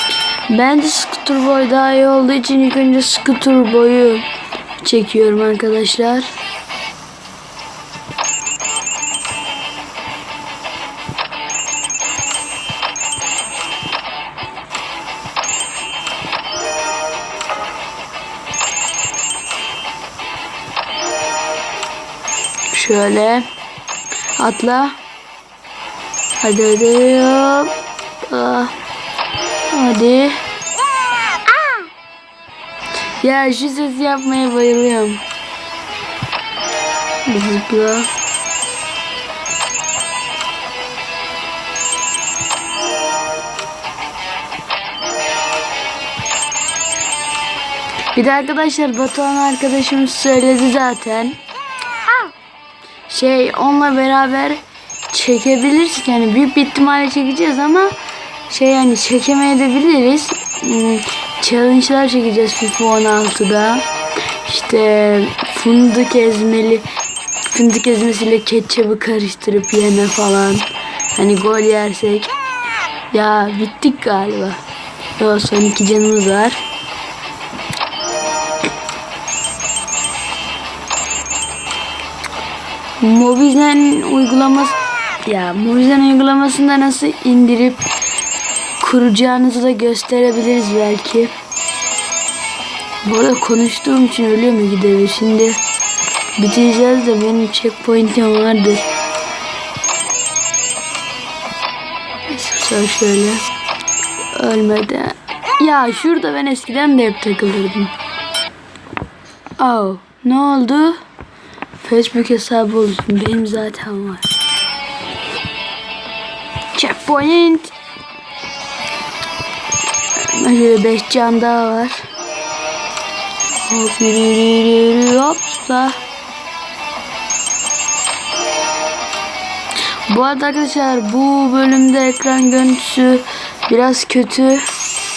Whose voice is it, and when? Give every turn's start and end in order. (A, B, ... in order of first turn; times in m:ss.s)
0:00.5-0:04.2 A
0:04.8-0:06.3 A
0:22.7-0:23.5 A
0:24.3-0:25.0 A
0:26.4-0:28.7 A
0:29.7-0:30.4 A
0:33.2-0:35.2 A
0:37.2-0:38.1 A
0:48.1-0:51.4 A
0:53.1-0:57.9 A
0:58.5-1:03.9 A
1:04.4-1:06.8 A
1:07.5-1:12.3 A
1:13.1-1:14.6 A
1:15.2-1:16.6 A
1:23.0-1:27.9 A
1:28.8-1:31.3 A
1:33.0-1:35.6 A
1:36.4-1:38.9 A
1:42.3-1:43.4 A
1:44.3-1:47.9 A
1:49.6-1:51.0 A
1:51.8-1:54.3 A
1:56.7-1:57.7 A
2:00.2-2:02.1 A
2:03.6-2:06.0 A
2:10.1-2:14.7 A